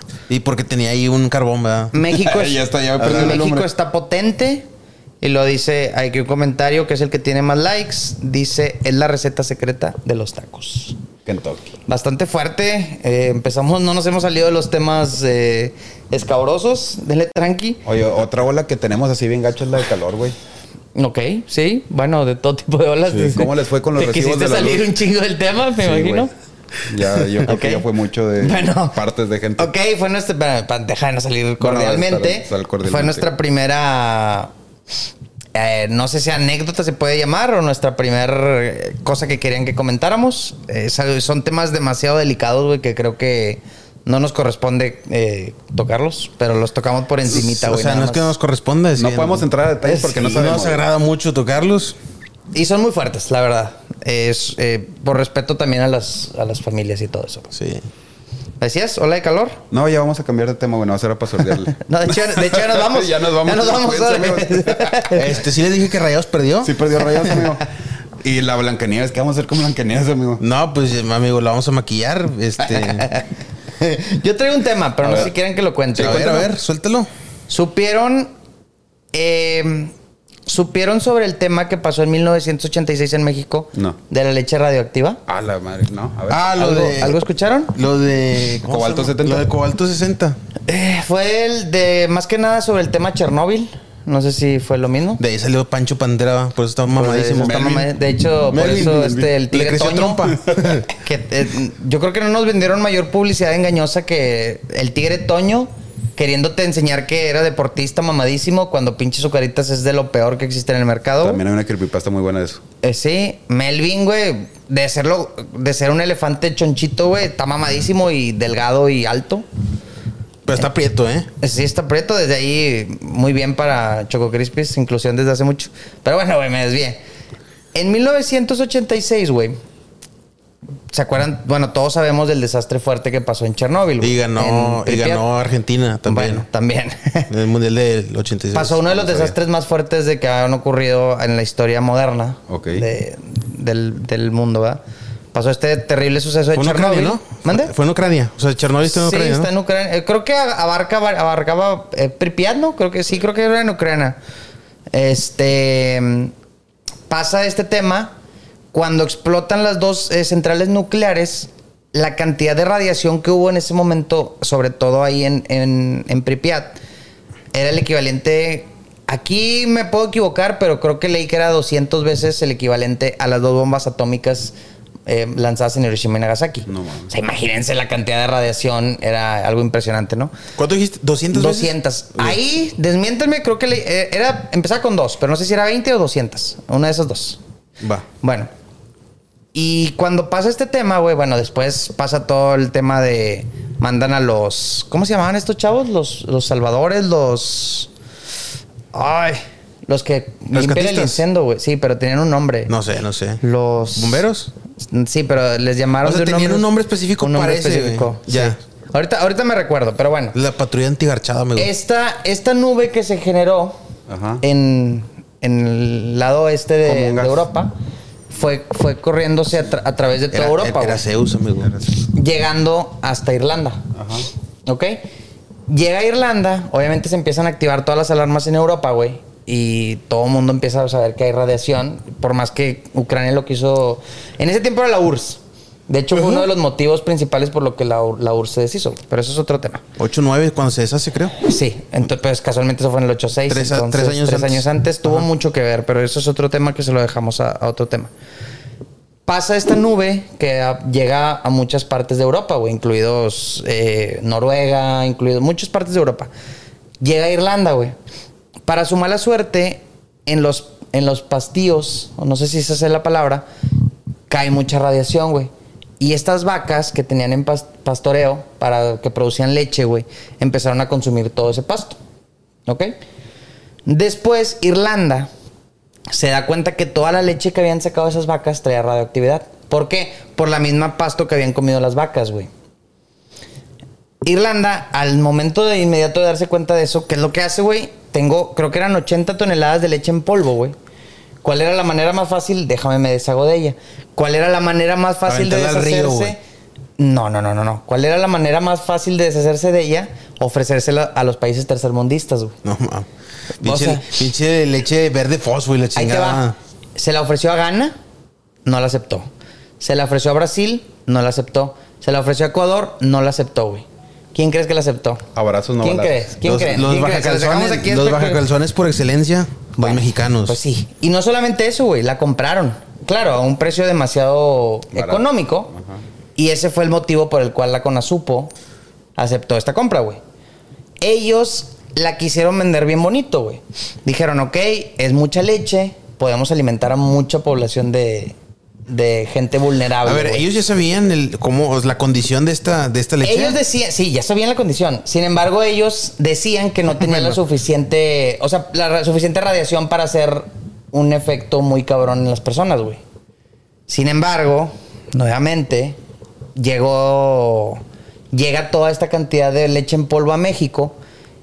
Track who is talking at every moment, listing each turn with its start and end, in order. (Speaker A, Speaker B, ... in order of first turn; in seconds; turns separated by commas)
Speaker A: 0.3-1.9, Speaker B: 1.9-4.7, Speaker C: 2.1-3.7, Speaker B: 5.2-11.0, Speaker C: 11.2-11.7, Speaker B: 11.9-17.8, Speaker C: 17.8-20.4, Speaker B: 20.9-26.3, Speaker A: 23.1-23.4, Speaker C: 23.3-24.9, Speaker C: 25.9-26.3, Speaker C: 26.9-29.7, Speaker B: 27.4-27.8, Speaker B: 28.4-29.0, Speaker B: 29.6-34.5, Speaker C: 31.6-33.3, Speaker B: 35.5-48.3, Speaker A: 47.3-51.9, Speaker C: 49.0-50.9, Speaker B: 52.5-57.5, Speaker A: 57.5-57.8, Speaker B: 58.6-59.6, Speaker C: 59.7-65.1, Speaker B: 61.7-65.3, Speaker A: 65.1-67.4, Speaker C: 66.6-67.7, Speaker C: 68.2-70.4, Speaker A: 70.4-73.1, Speaker B: 73.0-73.2, Speaker B: 73.8-76.5, Speaker C: 75.0-75.3, Speaker A: 76.0-77.1, Speaker C: 76.0-76.3, Speaker B: 77.5-78.3, Speaker B: 79.1-79.9, Speaker B: 80.5-85.2, Speaker C: 85.3-86.5, Speaker A: 86.3-87.2, Speaker B: 86.5-87.7, Speaker A: 87.7-90.4, Speaker C: 88.7-89.5, Speaker B: 90.7-95.2, Speaker A: 95.2-97.8, Speaker B: 97.0-100.3, Speaker C: 97.3-97.9, Speaker A: 98.5-100.8, Speaker C: 98.7-99.0, Speaker C: 100.5-100.8, Speaker B: 100.9-111.4, Speaker C: 111.2-112.6, Speaker B: 112.8-119.4, Speaker A: 120.5-121.3, Speaker B: 121.4-127.0, Speaker B: 127.7-129.6, Speaker B: 130.9-135.3, Speaker A: 134.0-136.4, Speaker B: 136.1-137.3, Speaker A: 137.3-138.8, Speaker B: 138.5-144.8, Speaker C: 138.9-139.3, Speaker C: 142.5-142.8, Speaker B: 145.3-147.7, Speaker A: 146.5-149.5, Speaker B: 148.8-154.2, Speaker B: 154.9-156.3, Speaker B: 157.1-158.1, Speaker B: 158.7-166.8, Speaker B: 167.5-174.5, Speaker B: 175.1-180.3, Speaker C: 176.7-177.1, Speaker A: 180.6-182.3, Speaker B: 181.3-187.4, Speaker B: 188.2-188.5, Speaker B: 189.5-197.9, Speaker B: 198.9-202.7, Speaker A: 200.5-201.2, Speaker A: 202.7-203.4, Speaker B: 203.4-204.2, Speaker A: 203.9-204.5, Speaker B: 204.8-206.7, Speaker A: 206.0-208.6, Speaker B: 207.2-210.3, Speaker A: 210.3-211.7, Speaker B: 211.6-213.8, Speaker C: 214.1-214.4, Speaker B: 214.4-217.7, Speaker C: 216.8-217.4, Speaker B: 218.3-221.0, Speaker A: 220.3-221.8, Speaker B: 222.1-223.8, Speaker C: 223.9-224.2, Speaker B: 224.7-225.0, Speaker B: 225.7-239.8, Speaker A: 236.1-236.5, Speaker A: 240.0-241.3, Speaker B: 241.4-248.1, Speaker A: 243.5-245.3, Speaker B: 249.3-256.3, Speaker B: 257.0-257.9, Speaker B: 258.6-263.4, Speaker B: 264.3-272.0, Speaker B: 272.6-272.9, Speaker B: 273.9-275.3, Speaker B: 276.1-282.5, Speaker B: 284.2-290.7, Speaker B: 291.4-296.4, Speaker A: 295.3-296.4, Speaker B: 297.0-302.5, Speaker A: 302.6-303.1, Speaker B: 303.6-304.1, Speaker A: 303.6-306.6, Speaker B: 305.9-307.9, Speaker B: 308.6-309.3, Speaker B: 309.8-315.2, Speaker C: 315.3-316.3, Speaker B: 315.8-318.4, Speaker A: 316.4-320.6, Speaker B: 319.8-325.7, Speaker C: 324.9-326.0, Speaker B: 326.4-328.5, Speaker B: 329.2-330.2, Speaker B: 331.0-338.3, Speaker B: 338.9-340.4, Speaker A: 340.0-343.6, Speaker B: 343.2-353.0, Speaker A: 347.0-347.4, Speaker B: 353.9-356.0, Speaker B: 356.6-361.0